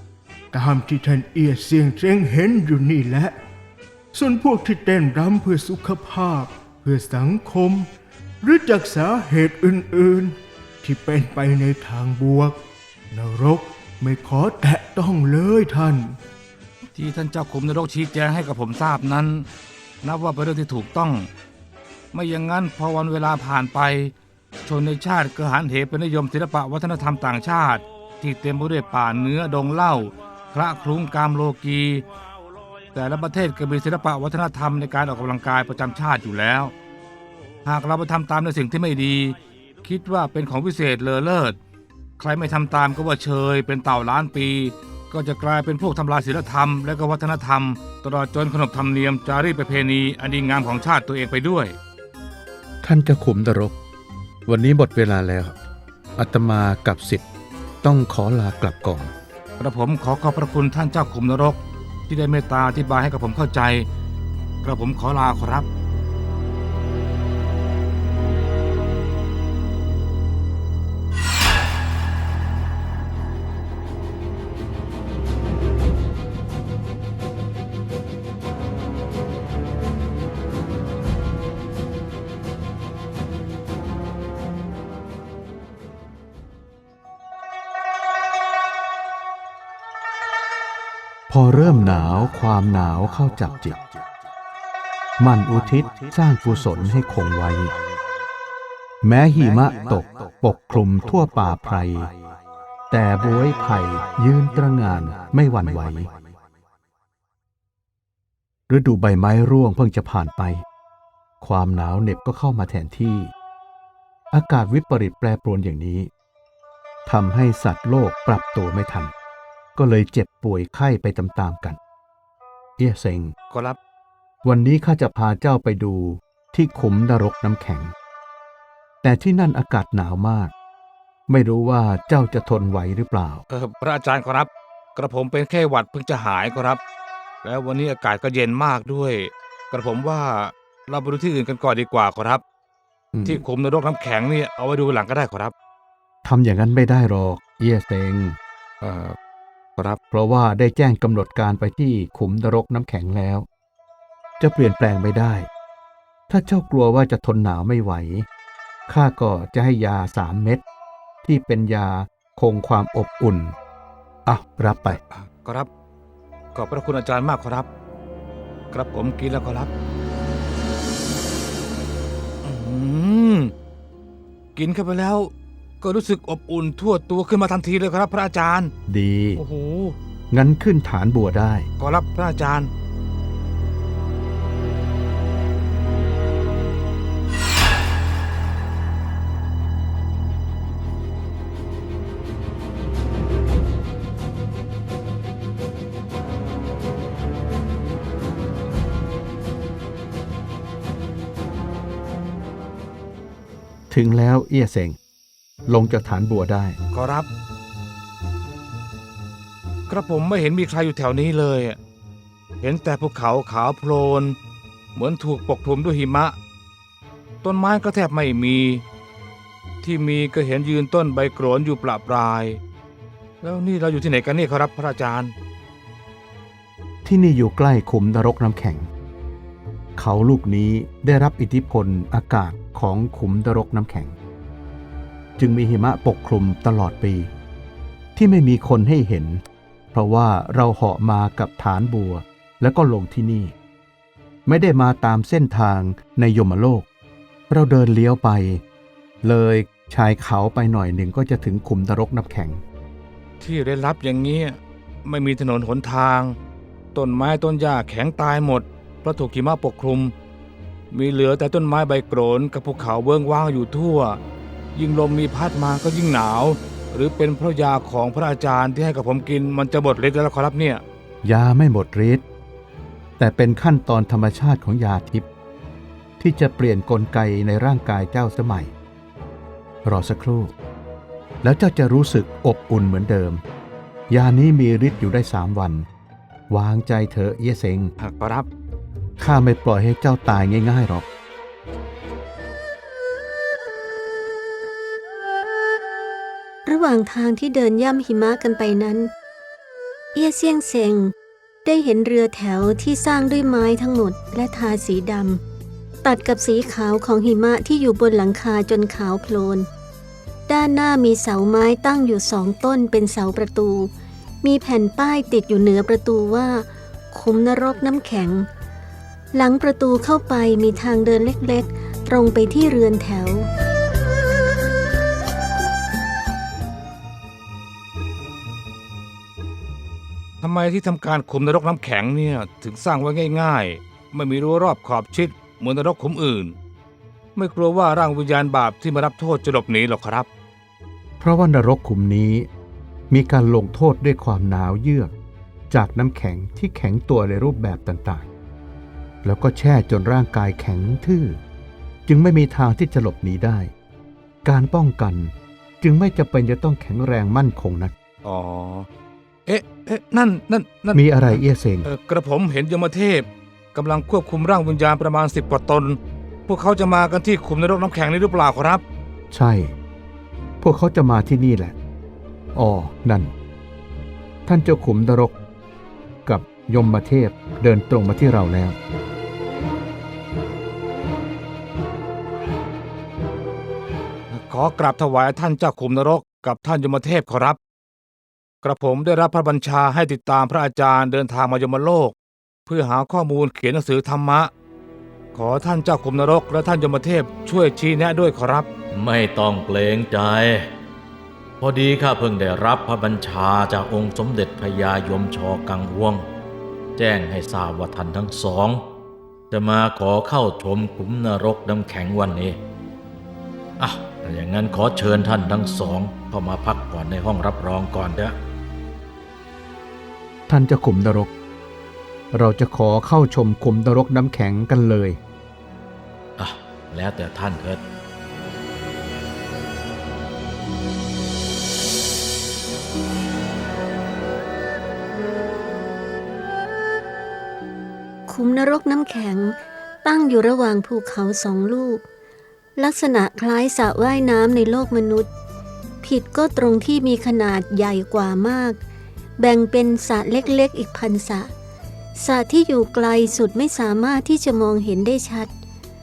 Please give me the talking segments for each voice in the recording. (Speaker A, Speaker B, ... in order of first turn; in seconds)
Speaker A: 0.5-3.4, 4.1-7.9, 8.4-12.6, 13.1-16.2
Speaker B: 17.0-19.5, 20.0-21.3, 22.1-24.1, 24.7-32.0, 32.9-36.7, 37.6-41.6, 42.2-51.8, 59.6-63.9, 64.6-65.7, 123.5-123.8, 133.5-136.8, 137.4-142.4, 143.2-145.5, 148.8-149.2, 165.1-165.7, 166.6-167.7, 168.7-169.7, 172.4-173.5, 174.6-175.3, 175.8-178.7, 179.4-180.0, 181.8-182.7, 206.9-207.3, 209.9-211.8, 212.6-214.4, 215.0-216.3, 217.4-218.8, 219.8-222.6, 223.4-225.3, 253.4-256.4, 256.9-260.1, 260.9-264.2, 264.8-270.8, 288.0-288.5, 330.4-336.6, 337.4-340.3, 358.2-358.9, 359.5-368.8, 384.3-387.6, 388.6-392.1, 392.7-394.5, 395.3-398.7
Speaker C: 52.8-53.8, 54.5-55.5, 56.2-57.3, 57.8-59.1, 91.3-93.8, 95.2-97.7, 99.0-102.1, 102.9-106.1, 108.7-110.7, 111.4-113.3, 114.3-116.1, 117.1-119.1, 119.8-121.8, 122.8-123.3, 124.4-127.9, 129.0-130.5, 131.3-133.4, 143.1-143.4, 146.2-148.4, 150.1-153.5, 154.4-155.5, 156.3-158.3, 158.9-160.6, 161.2-163.6, 164.3-165.0, 178.9-179.4, 180.3-181.7, 203.9-205.0, 205.7-206.8, 227.1-228.9, 230.0-234.2, 235.4-237.3, 238.2-243.5, 244.5-246.9, 247.5-248.6, 249.2-252.6, 271.2-272.2, 273.2-275.3, 276.2-278.7, 279.9-280.5, 281.4-283.4, 284.1-285.9, 286.5-287.9, 289.2-291.1, 341.2-342.5, 343.1-345.1, 345.7-348.3, 349.2-351.4, 352.1-353.7, 354.4-357.9, 360.9-361.9, 369.3-369.8, 370.6-371.8, 372.5-373.3, 374.5-375.4, 376.3-378.8, 420.5-421.3, 422.3-425.2
Speaker D: 296.7-299.1, 300.1-301.1, 301.6-305.4, 306.0-309.7, 310.5-313.9, 314.4-318.5, 319.3-323.5, 438.3-442.0, 442.8-445.3, 446.0-448.8, 449.4-451.5, 452.2-455.5
Speaker E: 398.9-400.7, 401.6-406.2, 407.0-408.8, 409.5-412.6, 413.8-418.4, 426.4-427.8